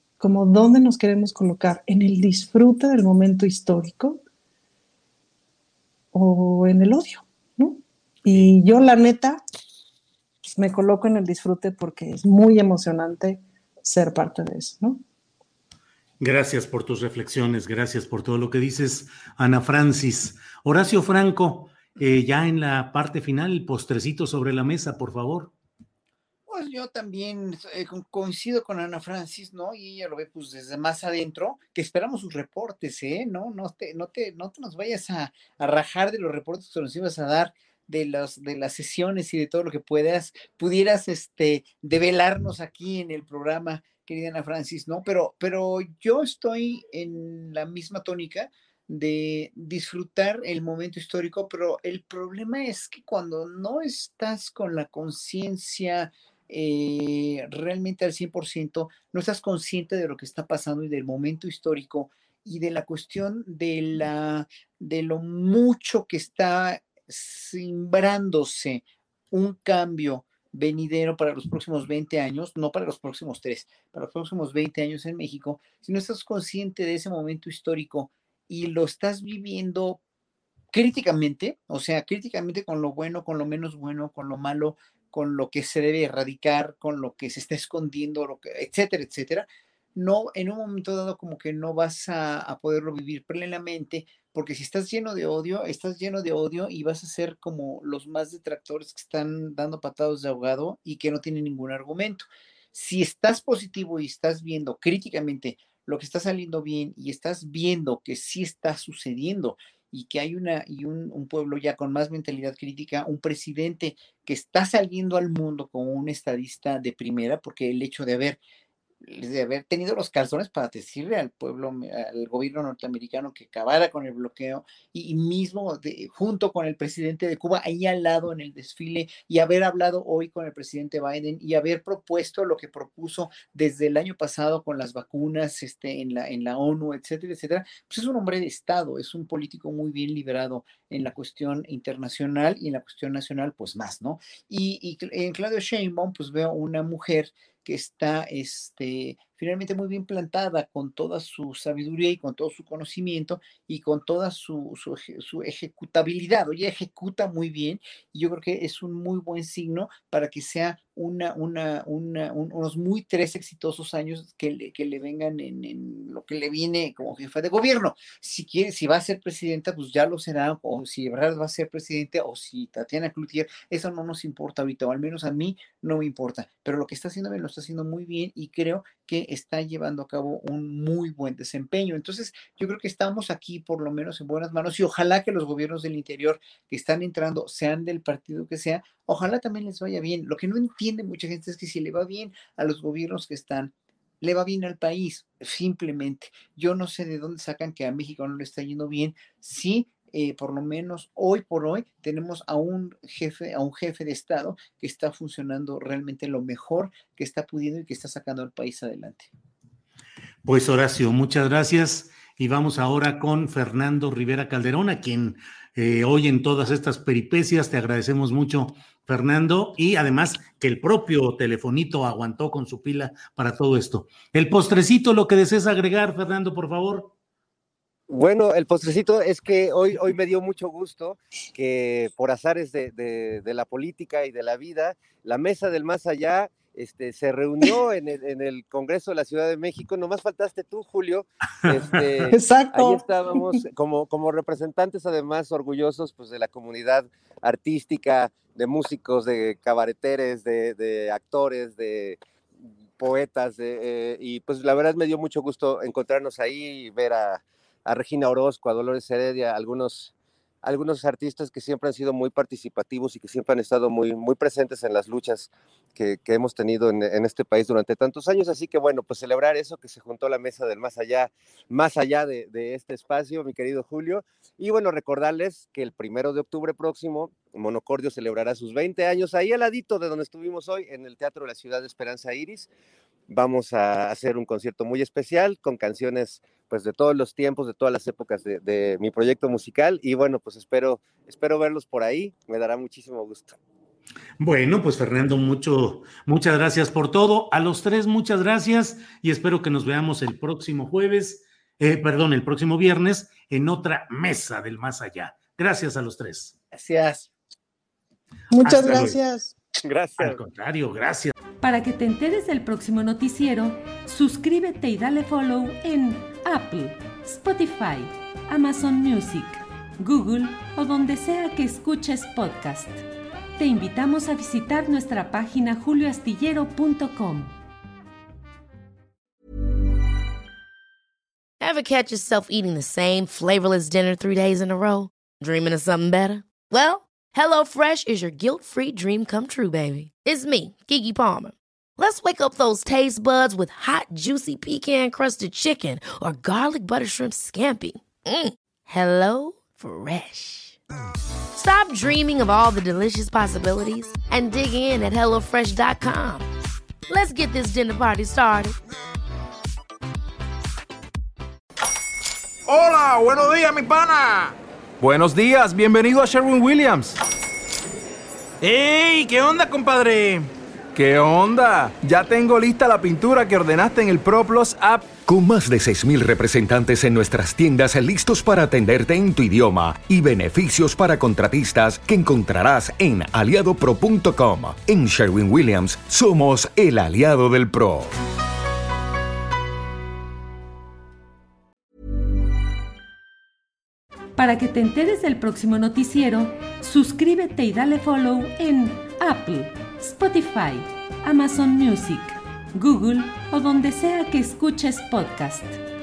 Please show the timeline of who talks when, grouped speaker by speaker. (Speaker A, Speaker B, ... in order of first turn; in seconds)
Speaker A: 0.2-4.2, 6.1-9.4, 10.4-15.0, 242.3-243.6, 308.5-309.5
Speaker B: 16.2-25.5, 210.4-227.1, 294.4-306.6, 308.6-309.2, 310.2-311.3
Speaker C: 26.5-80.0, 80.7-118.4, 119.0-209.3, 306.7-307.3
Speaker D: 228.1-252.2, 253.0-282.7, 283.3-293.6, 309.8-310.4
Speaker E: 311.6-323.0, 323.6-327.5, 394.4-405.8
Speaker F: 331.6-350.8, 351.6-356.5, 357.1-358.8
Speaker G: 362.7-367.2, 368.6-375.1
Speaker H: 375.2-388.1